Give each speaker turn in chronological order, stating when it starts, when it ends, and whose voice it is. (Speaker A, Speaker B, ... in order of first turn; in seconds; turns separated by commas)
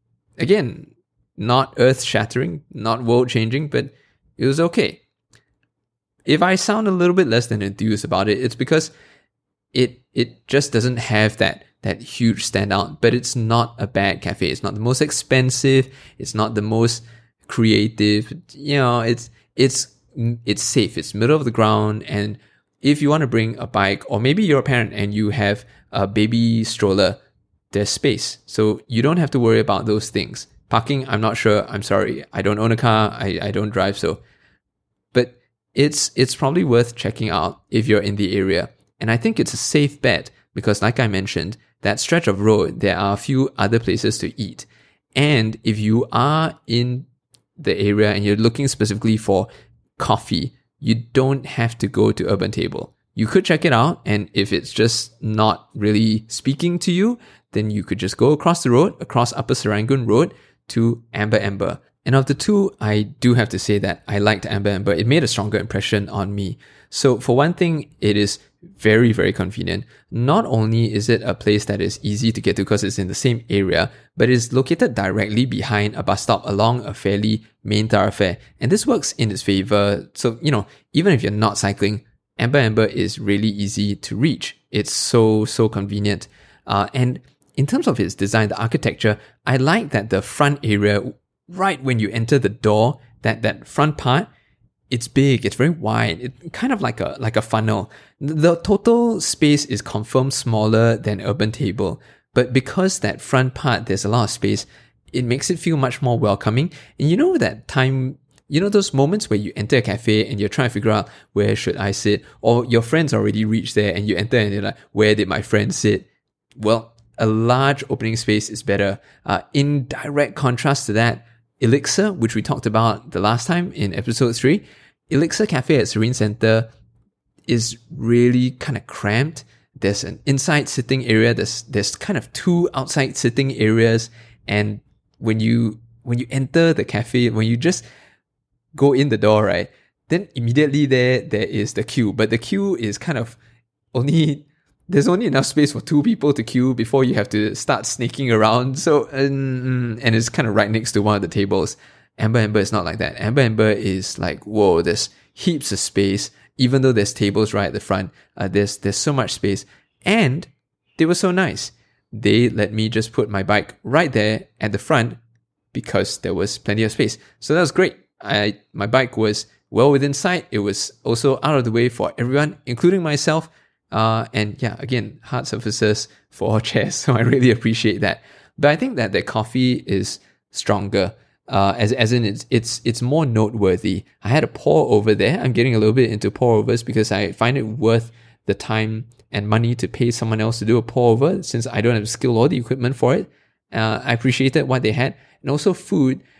Speaker A: 0.4-5.0, Speaker A: 6.2-8.9, Speaker A: 9.7-27.2, Speaker A: 27.7-34.2, Speaker A: 35.1-47.1, Speaker A: 47.6-94.3, Speaker A: 94.9-126.7, Speaker A: 127.5-137.8, Speaker A: 138.7-143.4, Speaker A: 143.9-165.2, Speaker A: 165.7-196.2